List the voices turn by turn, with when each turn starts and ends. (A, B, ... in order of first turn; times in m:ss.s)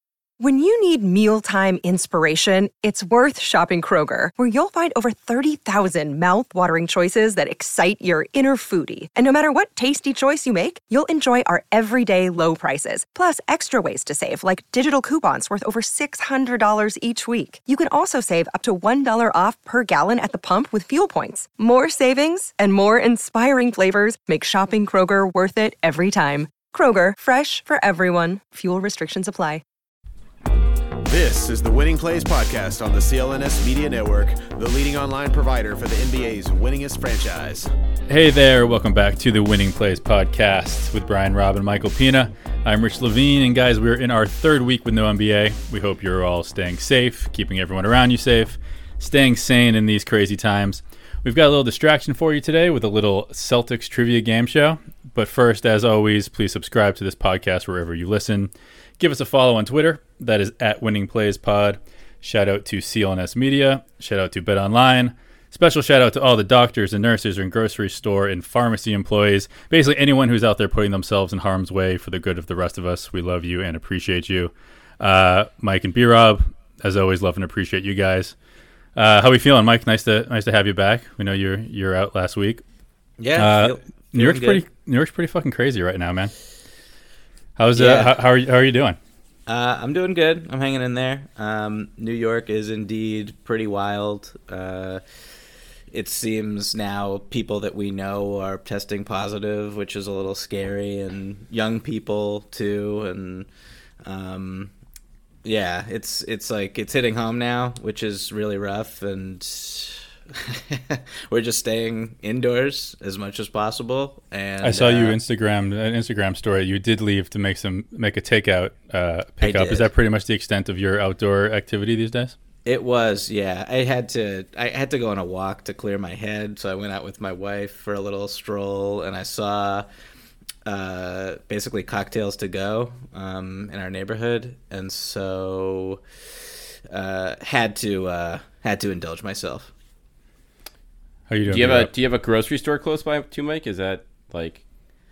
0:00.4-0:29.6 A
0:31.1-0:37.7 B
0:38.1-1:18.3 C
1:19.0-1:22.6 C
1:23.2-1:24.6 D
1:23.4-1:26.3 C
1:27.6-1:29.0 C
1:27.7-1:28.2 D
1:29.5-1:35.0 D
1:35.9-1:43.5 D
1:44.0-1:44.7 D
1:45.4-1:55.2 D
1:54.6-2:02.4 C
1:59.4-1:59.9 D
2:02.6-2:09.8 D
2:10.6-2:16.0 D
2:16.9-2:19.7 D
2:21.3-2:21.9 C
2:21.5-2:24.6 E